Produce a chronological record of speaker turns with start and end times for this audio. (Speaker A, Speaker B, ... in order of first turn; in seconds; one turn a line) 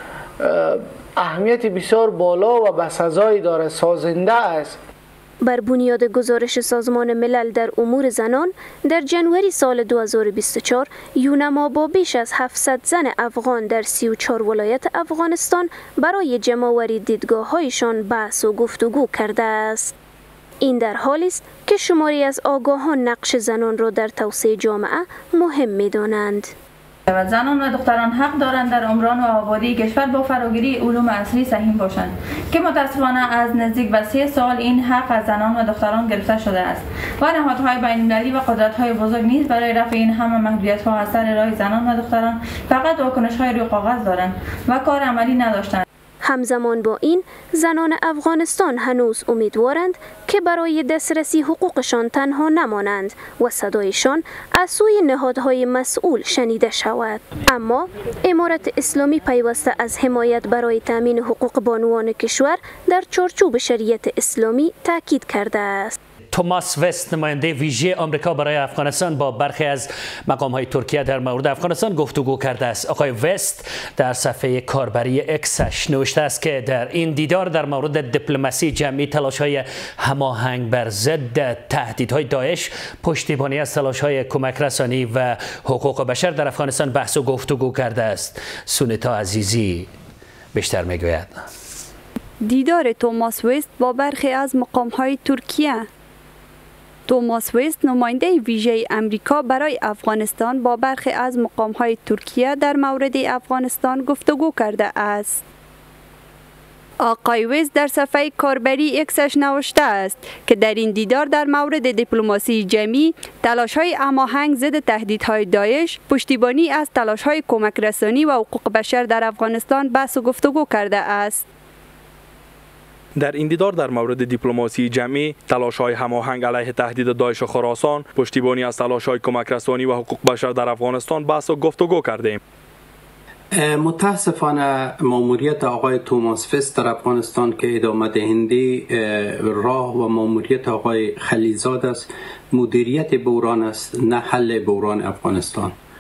Speaker A: 0.4-4.8
Speaker B: 5.4-19.9
Speaker B: 20.6-26.5
Speaker C: 27.1-45.8
Speaker B: 46.2-66.0
Speaker D: 66.3-89.9
Speaker D: 90.5-91.4
Speaker E: 92.4-95.9
Speaker E: 97.1-105.4
Speaker E: 107.0-121.5
Speaker F: 123.2-132.4
Speaker G: 133.5-145.7